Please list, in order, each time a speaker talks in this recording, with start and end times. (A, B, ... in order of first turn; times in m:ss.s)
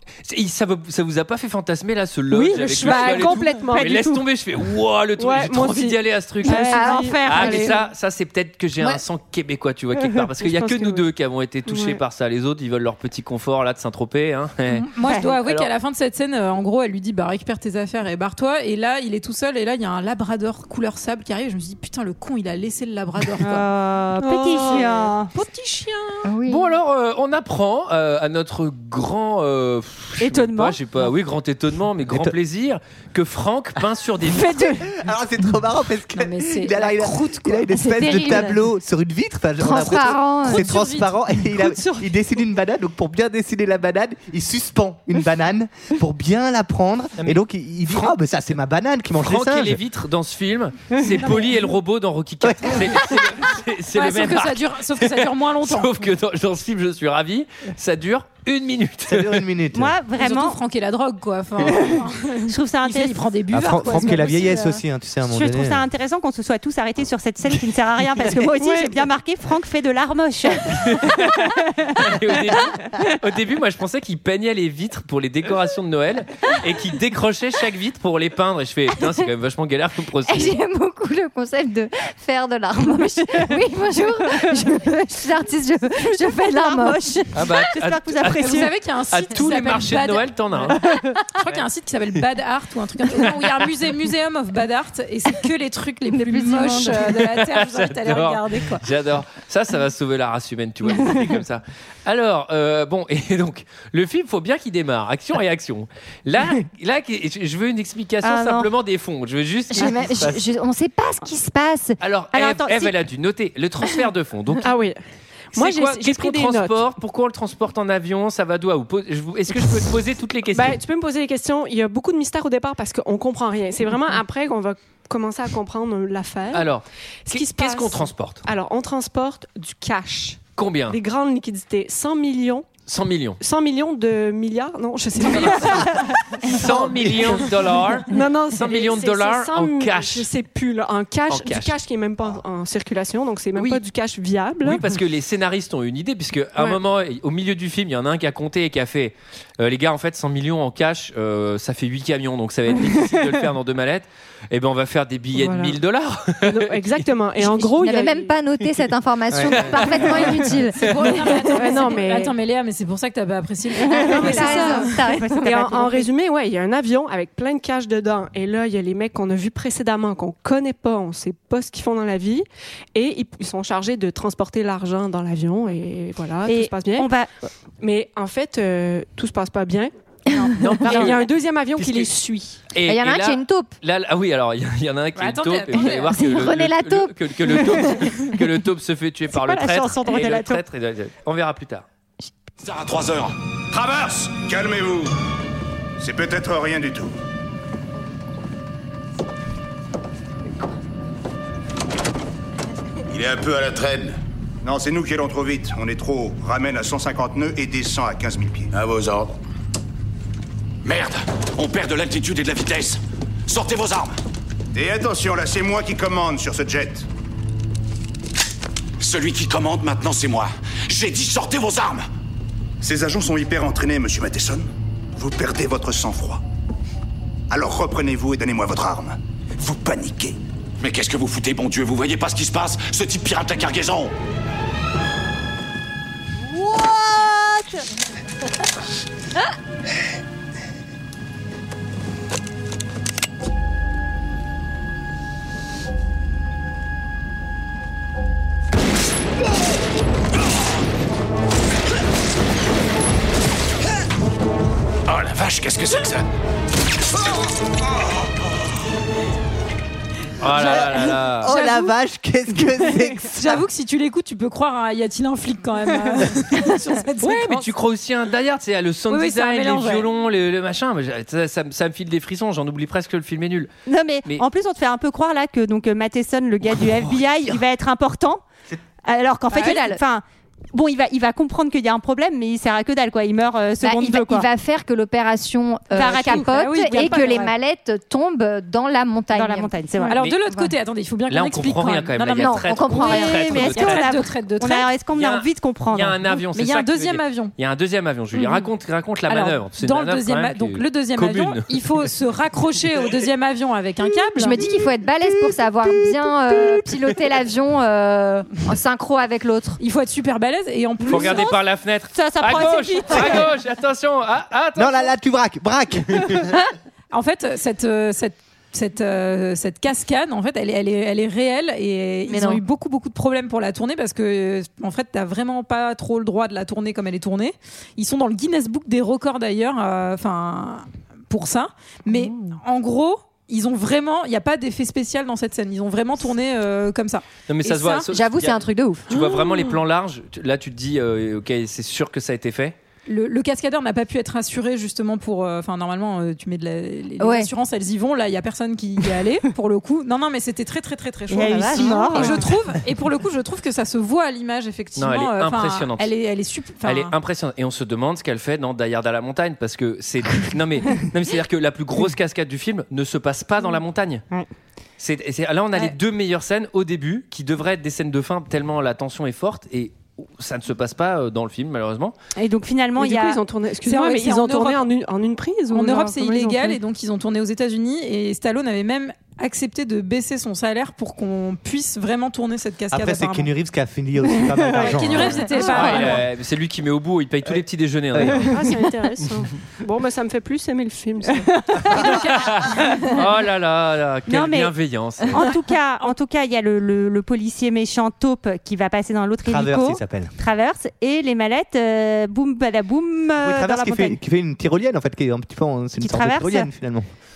0:00.2-0:14.9 A
0:02.3-0:04.2 B
0:05.2-0:07.6 B
0:06.4-0:07.7 C
0:06.5-0:07.8 D
0:10.4-0:11.1 B
0:11.7-0:12.0 B
0:14.7-0:23.6 E
0:15.0-0:15.3 C
0:15.4-0:15.7 A
0:23.4-0:25.3 C
0:24.2-0:25.1 B
0:24.5-0:26.3 E
0:26.2-0:26.8 D
0:26.4-0:34.7 A
0:30.2-0:30.8 C
0:32.1-0:32.3 F
0:34.2-0:34.9 C
0:34.7-0:49.8 F
0:36.1-0:38.4 E
0:37.9-0:38.6 D
0:39.6-0:40.7 D
0:40.4-0:42.2 E
0:47.2-0:48.2 A
0:49.2-0:59.4 A
0:51.2-0:51.5 E
0:52.4-0:53.2 F
0:53.9-0:56.1 E
0:59.1-1:00.0 F
0:59.7-1:00.6 C
1:00.2-1:04.8 E
1:02.5-1:03.2 C
1:03.5-1:05.8 F
1:05.2-1:12.9 C
1:08.6-1:08.9 B
1:10.6-1:20.6 A
1:20.2-1:27.5 D
1:23.2-1:23.5 C
1:24.3-1:24.8 C
1:26.0-1:28.7 C
1:27.3-1:30.8 A
1:28.3-1:38.8 E
1:30.8-1:31.2 C
1:36.1-1:37.1 D
1:37.2-1:50.4 A
1:41.0-1:41.2 C
1:48.2-1:48.7 C
1:49.7-1:52.0 D
1:52.0-1:54.7 A
1:52.3-1:53.0 C
1:54.6-1:55.0 B
1:55.5-1:56.8 B
1:55.5-2:00.8 A
2:00.5-2:06.7 B
2:06.5-2:08.4 A
2:07.2-2:12.7 B
2:10.6-2:11.0 A
2:12.9-2:13.4 A
2:13.4-2:17.5 B
2:15.3-2:15.7 A
2:16.4-2:20.3 A
2:18.1-2:24.8 B
2:21.3-2:21.7 A
2:24.6-2:37.0 A
2:35.3-2:35.8 B
2:36.4-2:38.3 B
2:37.4-2:41.5 D
2:39.3-2:39.7 F
2:39.4-2:40.9 A
2:40.7-2:44.9 E
2:41.5-2:42.3 B
2:43.8-2:46.1 C
2:44.0-2:57.1 B
2:44.0-2:45.5 D
2:56.4-2:57.3 C
2:57.8-2:59.9 B
3:00.6-3:01.2 A
3:00.8-3:02.6 B
3:00.8-3:01.2 C
3:01.8-3:02.1 A
3:02.7-3:11.8 A
3:02.8-3:03.7 D
3:05.2-3:06.2 E
3:05.7-3:08.2 D
3:09.3-3:10.6 C
3:12.6-3:13.3 G
3:13.7-3:15.1 H
3:16.0-3:17.1 H
3:23.1-3:24.0 G
3:24.6-3:28.7 H
3:28.7-3:29.3 G
3:30.8-3:34.1 G
3:34.7-3:37.1 H
3:39.0-3:42.0 G
3:42.8-3:46.4 H
3:47.5-3:50.4 H
3:50.8-3:54.1 G
4:15.1-4:16.2 G
4:20.4-4:21.5 A
4:20.6-4:23.6 F
4:20.7-4:21.9 E
4:23.0-4:27.7 E
4:27.2-4:33.7 A
4:29.1-4:30.1 E
4:33.9-4:38.4 C
4:36.7-4:37.6 A
4:39.0-4:44.5 C
4:39.5-4:39.8 E
4:39.6-4:40.0 D
4:43.8-4:49.7 D
4:45.9-4:47.5 C
4:46.0-4:47.5 E
4:49.3-4:50.2 C
4:50.0-4:54.9 E
4:51.3-4:54.0 A
4:52.2-4:53.7 D
4:53.0-4:56.3 C
4:55.1-5:02.0 A
4:56.5-4:57.5 E
4:58.4-4:58.6 E
4:59.3-5:04.6 E
5:04.4-5:09.8 D
5:09.8-5:11.6 E
5:11.0-5:15.1 A
5:11.2-5:11.4 C
5:12.1-5:13.5 C
5:14.8-5:16.6 F
5:17.1-5:38.1 E
5:22.3-5:22.6 D
5:37.5-5:42.8 A
5:38.1-5:39.2 D
5:43.1-5:57.1 E
5:47.2-5:47.5 D
5:51.3-5:52.5 C
5:55.0-5:56.1 A
5:56.8-6:04.2 A
6:05.0-6:12.1 A
6:12.4-6:13.4 C
6:13.0-6:16.7 B
6:13.8-6:14.9 E
6:15.7-6:23.5 E
6:22.9-6:25.5 F
6:24.6-6:26.2 E
6:25.5-6:28.6 A
6:28.1-6:28.6 F
6:28.5-6:32.2 B
6:32.0-6:35.4 A
6:32.0-6:32.6 E
6:34.3-6:34.7 C
6:35.3-6:44.2 C
6:39.4-6:40.3 F
6:43.4-6:47.0 F
6:46.0-6:46.7 C